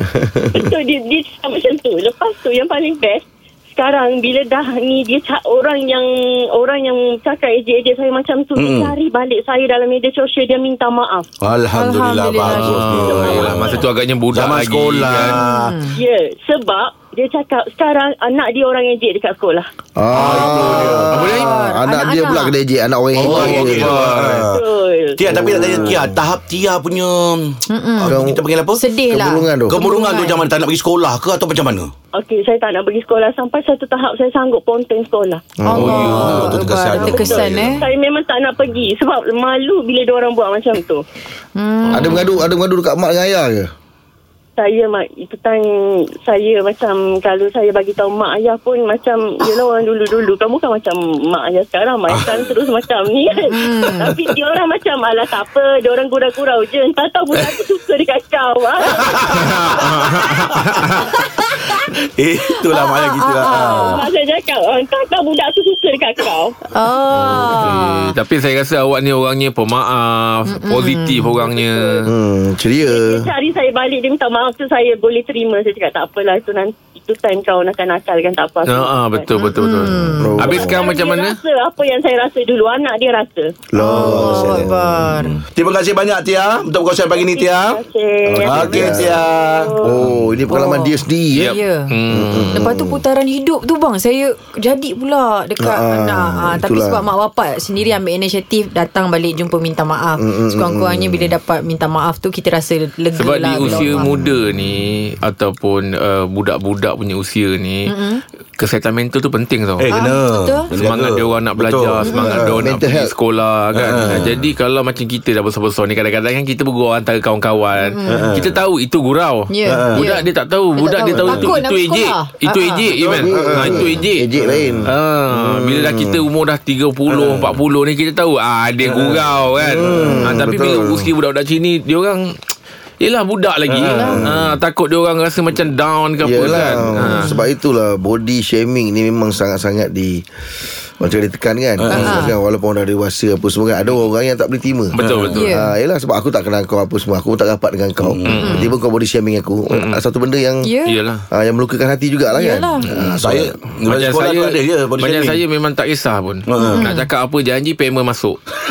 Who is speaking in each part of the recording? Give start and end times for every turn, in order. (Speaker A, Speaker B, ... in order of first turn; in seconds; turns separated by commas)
Speaker A: 0.1-0.4, Speaker B: 0.5-11.3, Speaker C: 8.6-8.9, Speaker C: 11.4-15.8, Speaker D: 11.7-13.0, Speaker E: 12.4-15.4, Speaker B: 13.0-13.8, Speaker D: 15.3-16.0, Speaker B: 15.9-19.7, Speaker A: 20.0-24.0, Speaker C: 20.1-21.2, Speaker E: 20.2-21.5, Speaker D: 21.2-22.6, Speaker C: 23.1-24.6, Speaker E: 23.2-24.5, Speaker B: 24.5-25.8, Speaker C: 25.2-28.8, Speaker A: 25.2-26.2, Speaker D: 27.7-28.2, Speaker A: 28.0-28.4, Speaker D: 28.7-30.4, Speaker A: 29.1-29.8, Speaker C: 29.7-31.9, Speaker B: 32.1-35.5, Speaker A: 35.6-36.4, Speaker D: 35.6-37.8, Speaker E: 35.7-36.7, Speaker C: 35.8-37.8, Speaker B: 37.7-41.0, Speaker D: 41.6-42.2, Speaker A: 41.9-43.7, Speaker B: 44.6-59.2, Speaker C: 52.1-52.4, Speaker D: 53.5-54.1, Speaker C: 54.0-54.3, Speaker C: 58.8-64.0, Speaker E: 59.3-61.2, Speaker D: 62.7-64.0, Speaker B: 63.6-66.5, Speaker D: 66.7-68.1, Speaker E: 67.3-72.1, Speaker D: 70.5-71.7, Speaker B: 71.5-72.0, Speaker A: 72.0-73.3, Speaker B: 72.9-79.3, Speaker E: 78.7-81.4, Speaker D: 79.3-80.4, Speaker A: 80.2-80.8, Speaker B: 80.4-83.5, Speaker A: 83.7-85.1, Speaker D: 83.8-85.3, Speaker C: 83.8-87.8, Speaker B: 87.1-90.0, Speaker C: 88.3-90.4, Speaker A: 88.4-89.2, Speaker A: 89.8-91.6, Speaker D: 90.5-91.9, Speaker E: 91.3-92.6, Speaker A: 92.1-93.0, Speaker D: 92.5-104.1, Speaker A: 95.6-97.0, Speaker A: 100.2-101.3, Speaker E: 103.1-107.9, Speaker A: 103.7-104.3, Speaker D: 107.9-108.2, Speaker E: 108.6-109.9, Speaker C: 109.8-112.5, Speaker D: 109.9-110.7, Speaker E: 110.7-124.3, Speaker D: 112.0-112.4, Speaker A: 112.5-113.1, Speaker C: 113.7-114.5, Speaker D: 117.8-118.3, Speaker C: 118.0-118.5, Speaker D: 119.5-122.8, Speaker C: 119.6-120.0, Speaker C: 121.1-121.6, Speaker C: 122.9-124.9, Speaker A: 123.2-126.2, Speaker E: 124.8-132.3, Speaker C: 127.1-127.6, Speaker C: 128.8-130.3, Speaker A: 129.7-131.1, Speaker E: 133.0-137.3, Speaker C: 133.7-134.4, Speaker D: 133.9-134.2, Speaker A: 136.2-140.2, Speaker D: 137.1-137.4, Speaker A: 141.0-150.7, Speaker C: 141.8-142.3, Speaker D: 141.9-142.3, Speaker E: 144.9-145.4, Speaker C: 144.9-145.4, Speaker D: 145.3-145.7, Speaker C: 148.0-148.5, Speaker E: 148.3-148.7, Speaker D: 148.3-148.7, Speaker E: 149.7-150.0, Speaker D: 150.6-150.9, Speaker E: 150.8-151.2, Speaker A: 151.3-153.5, Speaker D: 152.3-152.8, Speaker C: 152.8-155.4, Speaker E: 153.9-158.4, Speaker C: 156.4-156.9, Speaker D: 156.6-157.1